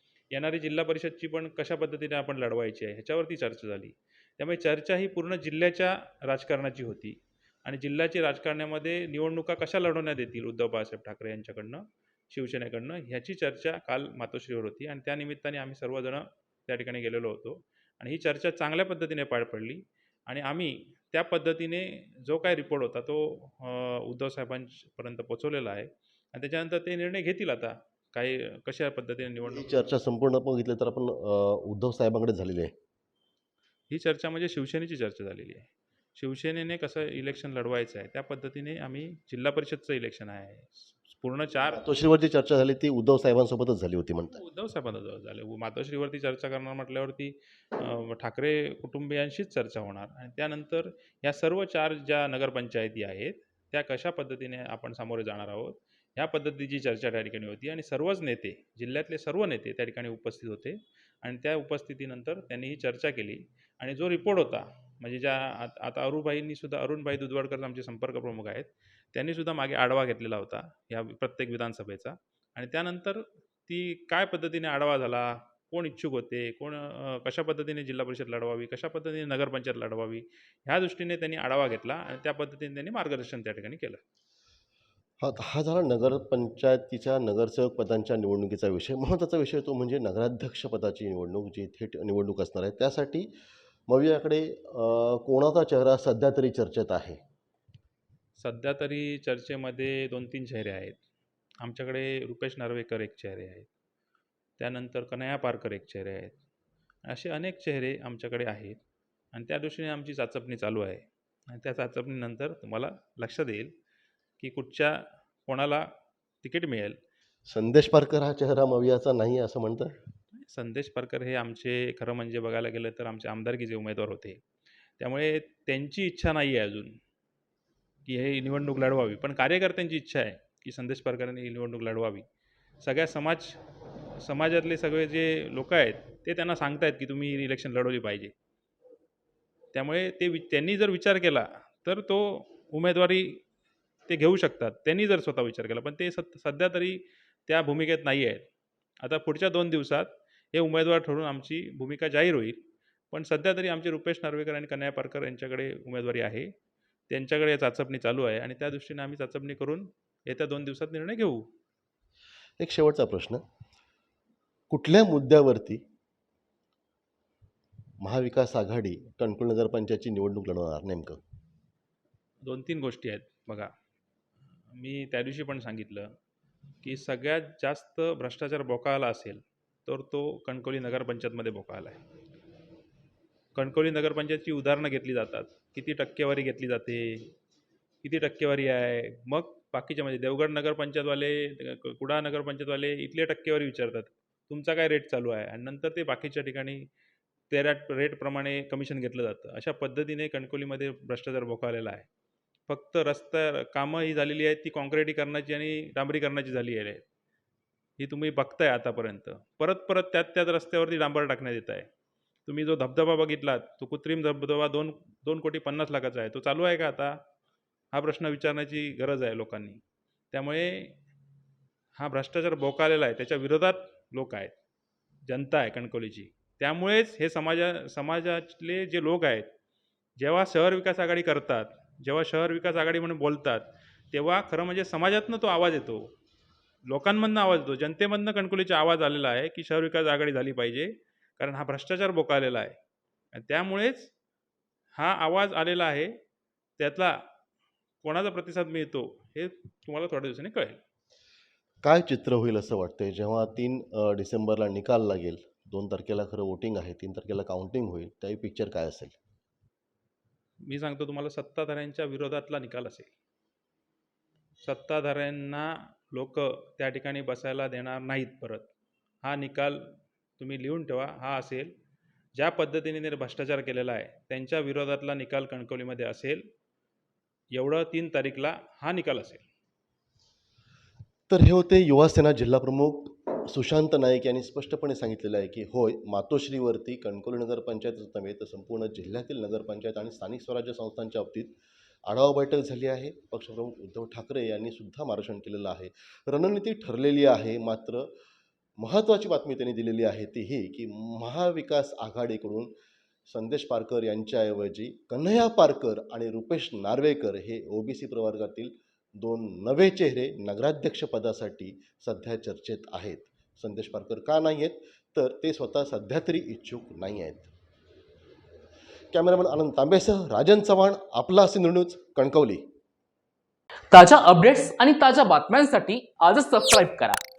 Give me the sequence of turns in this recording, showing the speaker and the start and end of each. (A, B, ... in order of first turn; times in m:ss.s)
0:00.3-0:29.7 A
0:29.4-0:32.7 B
0:33.9-0:41.9 A
0:41.6-0:44.4 B
0:44.3-1:24.0 A
1:25.2-1:33.3 B
1:33.9-1:37.2 B
1:38.4-1:41.0 A
1:41.6-1:43.7 A
1:44.6-1:46.4 A
1:47.0-1:48.8 A
1:49.3-1:53.7 A
1:54.4-1:55.9 A
1:56.4-1:57.0 A
1:57.5-2:00.0 B
2:00.3-2:04.4 A
2:05.0-2:07.0 A
2:08.1-2:12.2 A
2:12.8-2:13.6 A
2:14.1-2:18.3 A
2:19.7-2:23.4 A
2:24.1-2:28.4 A
2:29.0-2:32.6 A
2:33.1-2:36.5 A
2:37.1-2:41.4 A
2:42.6-2:43.4 B
2:44.7-2:45.8 B
2:48.0-2:51.2 B
2:52.4-2:53.7 A
2:54.7-2:56.1 A
2:56.8-3:02.0 A
3:03.6-3:07.3 A
3:08.0-3:16.9 A
3:17.5-3:22.1 A
3:22.7-3:27.0 A
3:28.0-3:31.9 A
3:32.5-3:37.1 A
3:37.9-3:39.8 A
3:40.3-3:41.0 A
3:42.0-3:44.5 A
3:45.3-3:49.5 A
3:50.2-3:56.1 A
3:56.9-4:02.8 A
4:03.3-4:04.1 A
4:05.0-4:06.1 A
4:06.8-4:07.2 A
4:08.0-4:10.8 A
4:11.8-4:19.2 B
4:20.6-4:23.1 A
4:24.6-4:28.7 A
4:29.2-4:31.7 A
4:32.4-4:36.4 A
4:37.5-4:39.4 A
4:41.3-4:51.6 B
4:52.1-4:58.1 B
4:58.8-5:02.7 B
5:03.3-5:17.5 B
5:19.1-5:22.6 B
5:23.9-5:27.2 C